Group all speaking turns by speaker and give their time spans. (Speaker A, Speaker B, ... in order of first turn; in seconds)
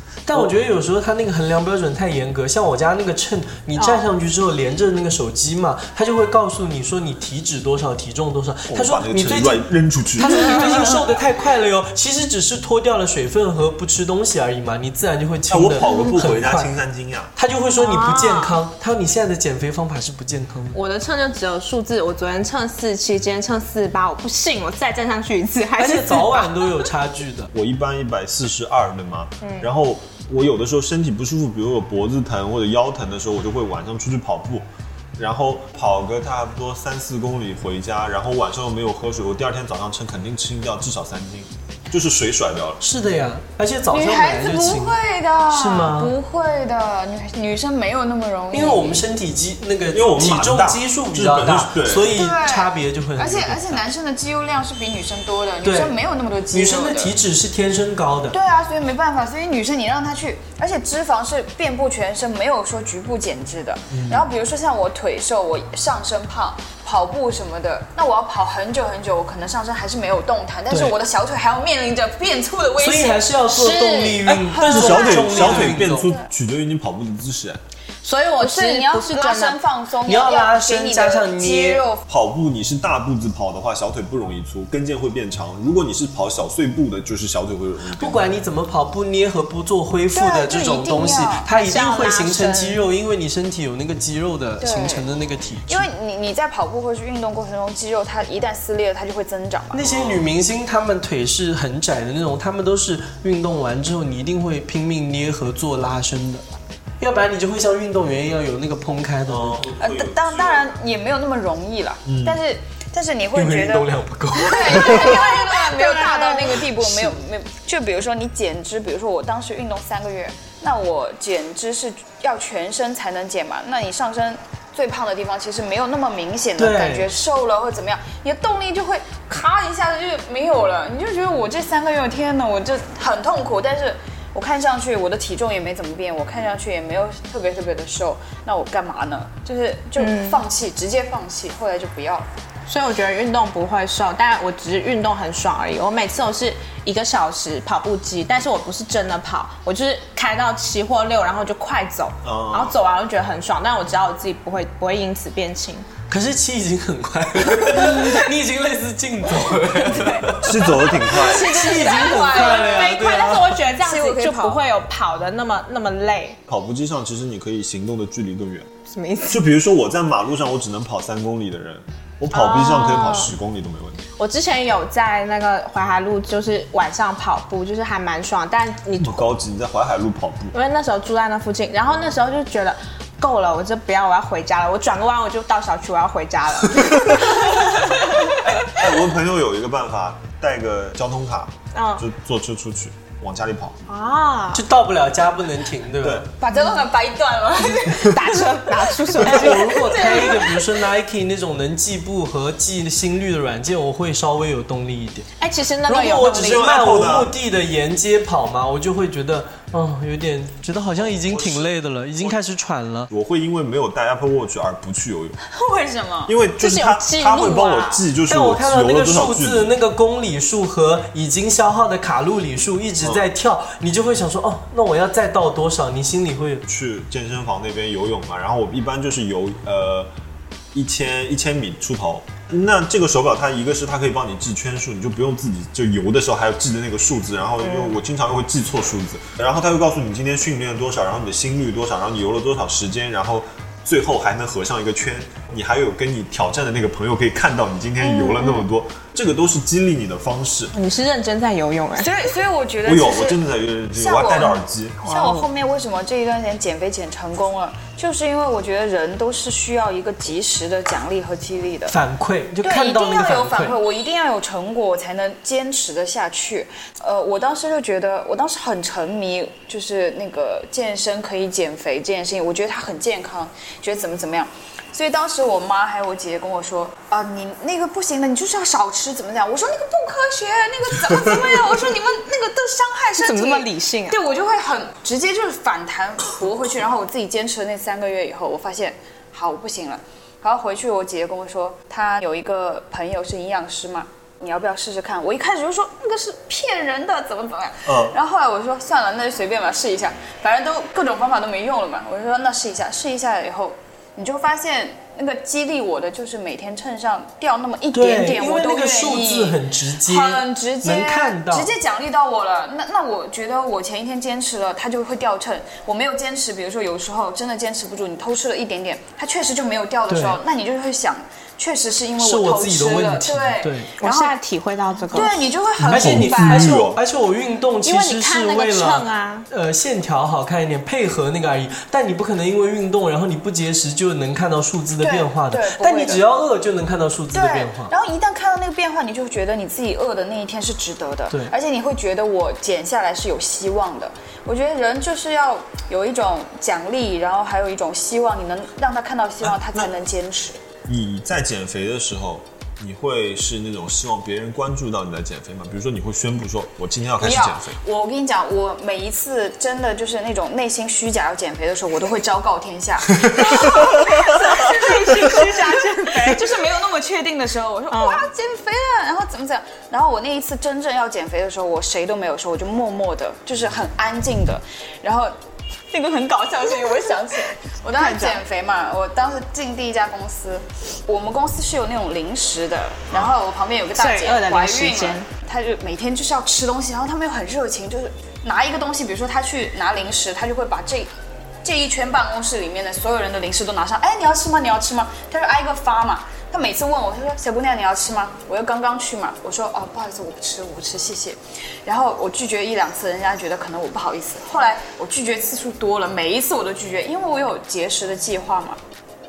Speaker A: 0.2-16.7, 17.4-20.8, 25.8-27.5, 42.8-45.0, 45.5-46.1, 48.5-53.8, 55.6-56.0, 56.5-58.4, 70.7-71.0, 72.8-76.1, 80.0-81.8, 87.9-95.9, 99.7-106.5, 107.0-109.7, 113.3-115.1, 126.6-127.1, 156.1-163.6, 194.5-196.3, 199.2-205.3, 205.9-213.1, 218.3-226.6, 261.9-263.8, 307.9-311.7, 320.1-320.4, 322.2-323.9, 325.8-337.9
Speaker B: 3.8-4.0, 17.8-18.6, 20.7-26.8, 29.4-29.7, 73.5-74.2, 78.0-79.6, 91.5-92.8, 114.7-116.6, 140.0-140.4, 142.7-155.8, 161.7-166.4, 168.9-169.4, 172.3-173.3, 174.2-179.3, 180.5-188.3, 191.7-192.0, 193.9-194.6, 196.5-196.8, 198.0-200.2, 205.4-206.9, 216.6-218.0, 248.0-248.6, 250.7-252.1, 255.1-255.4, 283.2-284.2, 324.0-325.3, 327.8-329.5, 363.4-366.4, 367.9-368.2, 378.0-378.4, 384.0-385.3
Speaker C: 8.7-11.1, 15.5-17.3, 27.5-34.6, 35.2-42.8, 49.9-52.1, 63.9-64.2, 74.2-77.6, 82.1-88.2, 99.8-100.2, 109.3-110.8, 112.0-112.4, 152.2-152.8, 160.0-161.6, 166.5-168.7, 169.3-174.0, 179.0-180.5, 186.9-193.8, 196.0-196.2, 206.3-207.3, 210.9-211.7, 213.1-215.4, 216.3-219.7, 226.7-230.1, 230.7-250.7, 252.8-255.2, 297.8-298.1, 325.8-327.0, 349.4-349.9, 350.9-357.8, 363.3-363.9
Speaker D: 43.9-49.0, 52.1-57.1, 58.3-73.3, 74.5-76.3, 78.4-82.0, 90.1-91.5, 94.6-95.0, 95.7-99.8, 109.8-142.3, 161.0-164.6, 196.4-198.5, 215.4-216.3, 252.0-253.4, 253.9-261.9, 262.6-324.3, 325.1-326.8, 335.0-336.2, 337.3-350.6, 357.2-375.3, 375.9-391.1, 391.6-408.8